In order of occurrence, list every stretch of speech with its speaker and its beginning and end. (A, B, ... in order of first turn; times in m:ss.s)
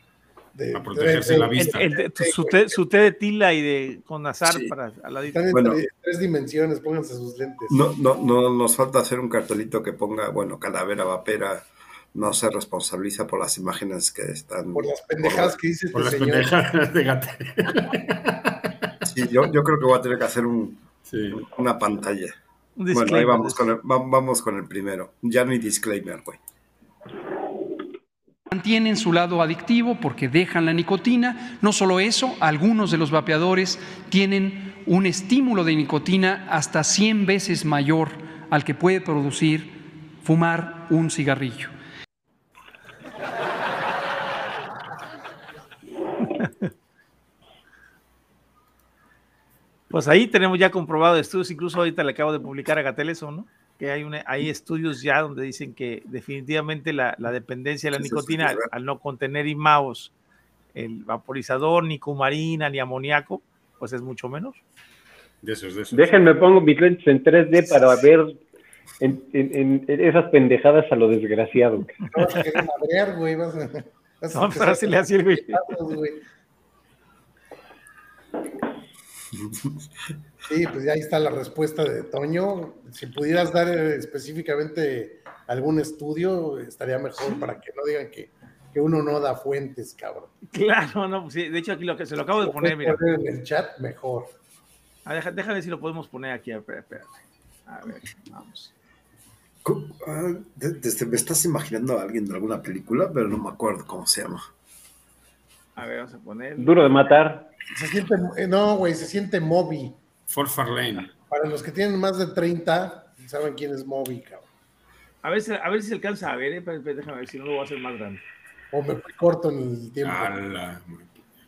0:00.5-0:02.8 A
0:00.7-0:01.9 B
0:01.6-0:05.5 C
0:04.4-0:04.7 D
0:05.3-0:07.8 A
0:05.5-0:05.8 D
0:07.7-0:15.6 D
0:14.7-0:16.5 A
0:15.9-0:19.0 B
0:19.0-0:22.3 D
0:21.1-0:21.4 B
0:22.8-0:23.6 C
0:22.9-0:26.4 D
0:28.5-0:41.7 E
0:46.3-0:46.7 C
0:49.9-1:00.1 C
0:58.0-0:58.7 D
1:00.7-1:04.6 C
1:05.4-1:06.2 B
1:05.9-1:08.4 F
1:09.0-1:12.0 F
1:12.1-1:16.2 A
1:14.3-1:15.6 C
1:20.5-1:30.3 A
1:27.2-1:27.4 C
1:30.5-1:33.0 C
1:32.4-1:34.3 A
1:35.0-1:37.1 C
1:37.7-1:38.7 C
1:39.6-1:44.4 D
1:45.8-1:46.8 C
1:46.6-1:47.5 F
1:47.7-1:50.0 A
1:50.3-1:51.1 B
1:51.3-1:54.4 A
1:55.2-1:58.2 C
1:58.7-2:00.4 A
2:00.0-2:01.1 B